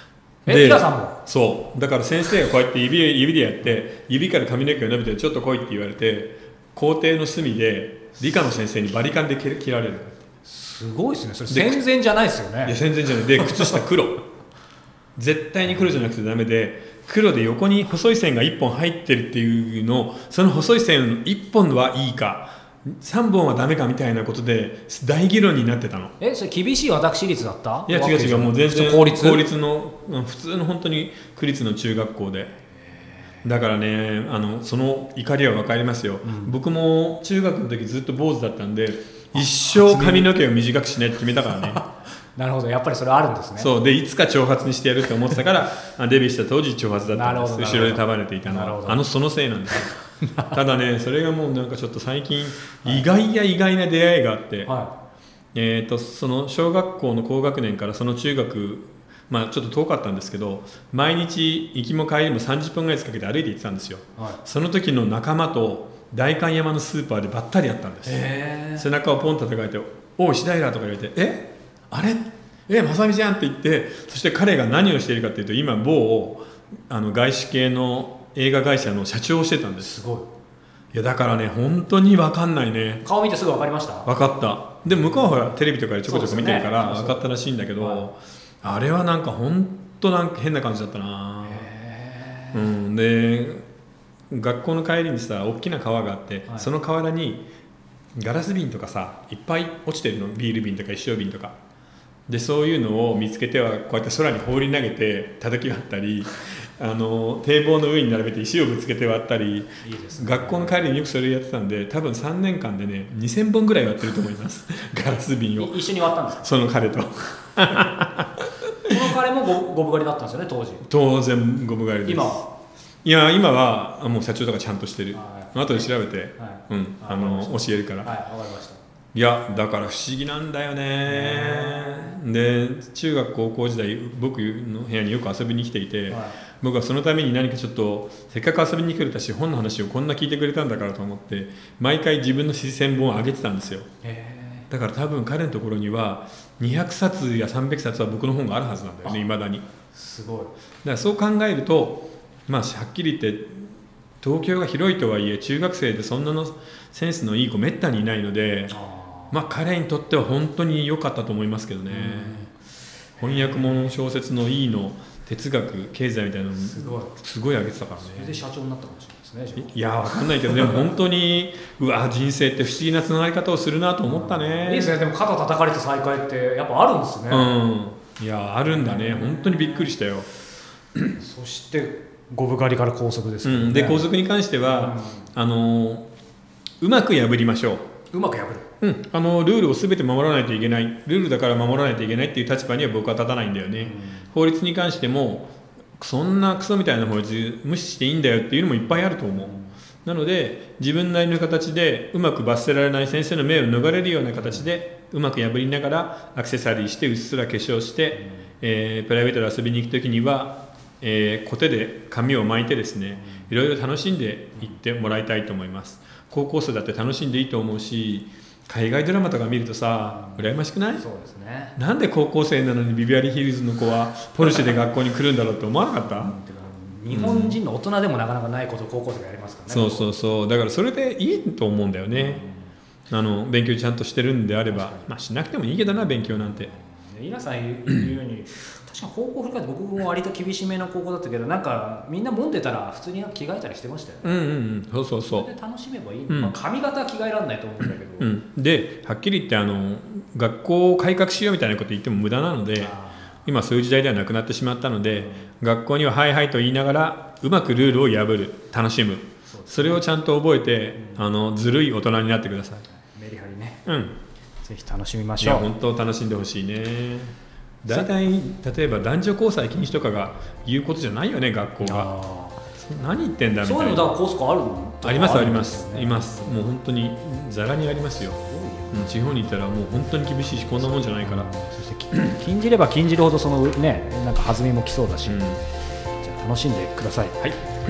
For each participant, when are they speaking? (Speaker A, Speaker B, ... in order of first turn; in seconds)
Speaker A: 0.5-1.2, 10.4-12.8, 26.2-29.5, 32.9-33.4, 36.2-36.5, 39.4-40.3, 41.6-43.7, 47.1-49.0, 50.2-50.5, 54.6-54.9, 68.0-68.9, 79.8-80.3, 83.0-84.1, 84.8-85.5, 86.0-88.1, 91.4-92.7, 109.8-110.9, 115.6-116.5, 118.8-120.8, 122.0-122.5, 125.1-125.9, 126.4-128.8, 131.1-132.2, 136.1-136.4, 144.0-144.7, 149.9-150.5, 158.7-159.3, 161.9-162.5, 163.2-163.9, 166.5-167.1, 167.8-169.7, 170.4-170.8, 174.1-177.5, 178.6-179.9, 181.1-184.1, 184.6-185.3, 188.1-188.7, 193.8-194.2, 199.4-199.7, 208.1-208.4, 220.1-220.4, 220.9-221.8, 226.1-230.1, 232.1-232.6, 234.7-235.1, 236.5-244.5, 245.3-248.3, 252.8-253.4, 255.2-255.5, 259.5-260.0, 261.0-261.2, 262.9-263.9, 264.6-265.7, 271.8-272.6, 273.6-276.7, 278.3-279.3, 280.6-285.5, 286.2-287.5
Speaker B: 0.5-10.2, 11.5-11.8, 12.7-14.2, 15.2-26.1, 27.9-32.5, 33.4-41.8, 43.6-49.9, 50.4-54.7, 55.5-68.2, 68.8-79.9, 80.9-83.0, 84.0-91.7, 92.5-93.6, 94.3-97.4, 98.2-101.5, 102.3-115.8, 116.3-118.9, 120.8-122.5, 123.0-128.1, 129.1-143.9, 144.7-149.6, 150.8-158.8, 159.3-162.5, 163.2-168.4, 169.6-175.0, 177.3-180.3, 183.4-186.1, 186.8-187.8, 188.8-199.5, 200.0-221.0, 221.8-226.3, 227.1-227.6, 229.7-232.4, 233.1-236.7, 244.2-245.5, 246.3-246.5, 248.2-252.9, 253.4-262.8, 263.9-264.1, 265.4-272.1, 272.8-274.1, 275.0-278.4, 278.9-281.5, 285.2-285.6